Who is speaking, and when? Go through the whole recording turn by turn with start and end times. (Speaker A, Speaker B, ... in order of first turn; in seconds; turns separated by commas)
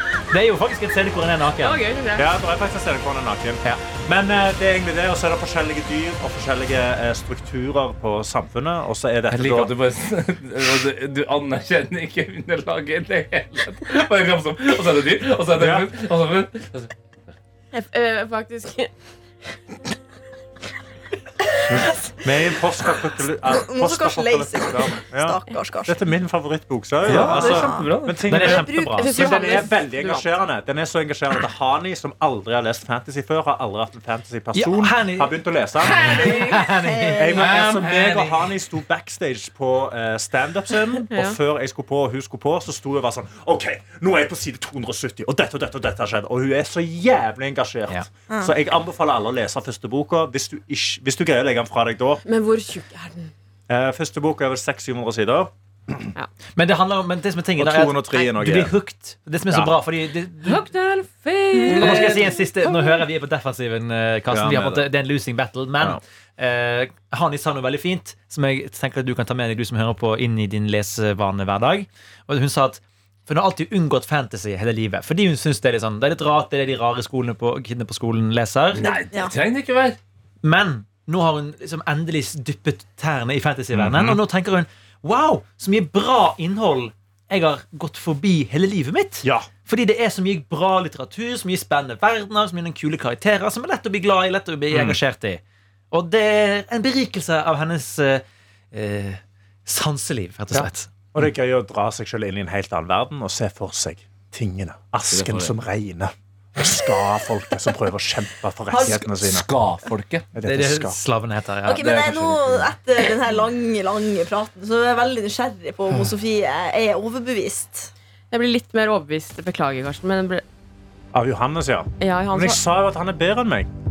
Speaker A: 0.3-1.8, Speaker B: 1.6-2.3, Speaker C: 2.2-9.7, Speaker D: 9.3-16.9, Speaker C: 15.6-15.9, Speaker B: 17.7-18.9, Speaker C: 21.7-36.5, Speaker E: 23.5-26.0, Speaker D: 27.1-28.3, Speaker A: 27.1-27.5, Speaker E: 27.2-27.9, Speaker A: 28.3-29.4, Speaker E: 28.4-29.6, Speaker B: 29.0-30.3, Speaker A: 34.5-37.4, Speaker D: 35.8-36.6, Speaker E: 36.3-37.5, Speaker C: 37.1-52.2, Speaker D: 37.3-38.5, Speaker B: 41.1-41.4, Speaker E: 48.3-48.5, Speaker B: 52.2-53.3, Speaker C: 53.7-56.1, Speaker A: 56.6-60.6, Speaker C: 57.6-58.8, Speaker C: 59.5-59.8, Speaker B: 60.4-62.3, Speaker A: 61.7-78.9, Speaker D: 61.8-62.2, Speaker C: 64.3-64.9, Speaker D: 78.7-80.0, Speaker A: 80.4-100.9, Speaker C: 83.7-84.2, Speaker C: 89.2-89.5, Speaker C: 94.7-95.0, Speaker C: 100.5-109.5, Speaker D: 105.1-105.5, Speaker D: 108.7-110.3, Speaker C: 110.3-111.0, Speaker A: 110.4-111.9, Speaker E: 111.6-117.9, Speaker D: 111.8-112.7, Speaker B: 118.3-120.4, Speaker C: 121.1-123.7, Speaker B: 122.0-122.6